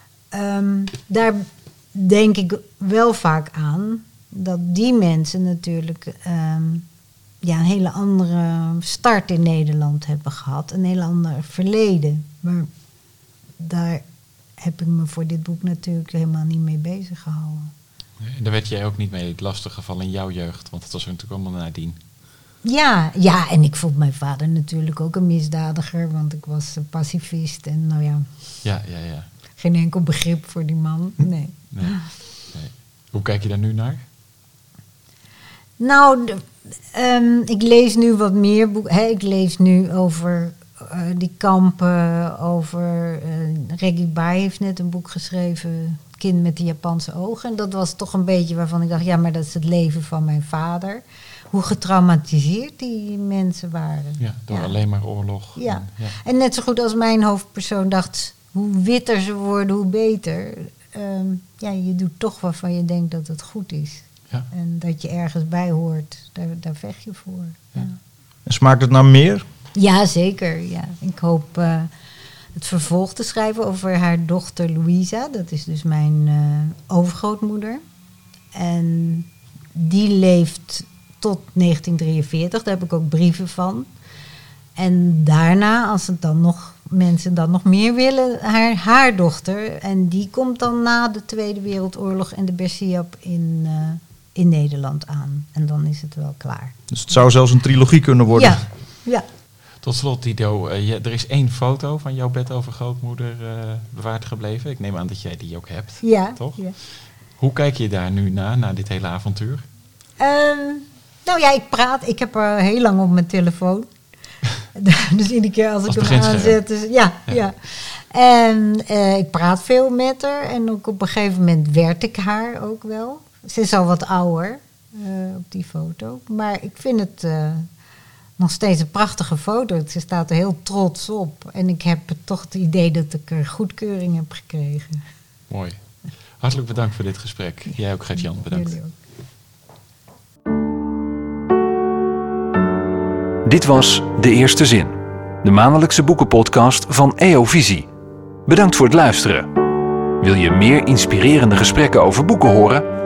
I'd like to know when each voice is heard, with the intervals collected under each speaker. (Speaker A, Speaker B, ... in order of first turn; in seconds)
Speaker A: 0.3-6.9, 7.4-12.7, 13.6-14.0, 14.6-17.7, 22.6-28.3, 29.6-32.1, 35.8-54.7, 55.6-68.0, 69.8-71.9, 72.5-77.8, 78.5-83.9, 84.8-96.8, 98.3-99.2, 106.0-106.8, 110.2-113.9, 114.7-127.7, 128.4-135.0, 137.7-139.0
Speaker B: 18.2-22.0, 28.6-29.3, 31.7-32.0, 32.5-34.0, 54.2-56.2, 99.8-109.7, 115.9-116.6, 135.5-135.8, 136.4-138.8
Speaker C: 68.5-69.4, 96.9-98.6
Speaker D: 143.4-147.9, 148.4-149.5, 150.2-152.8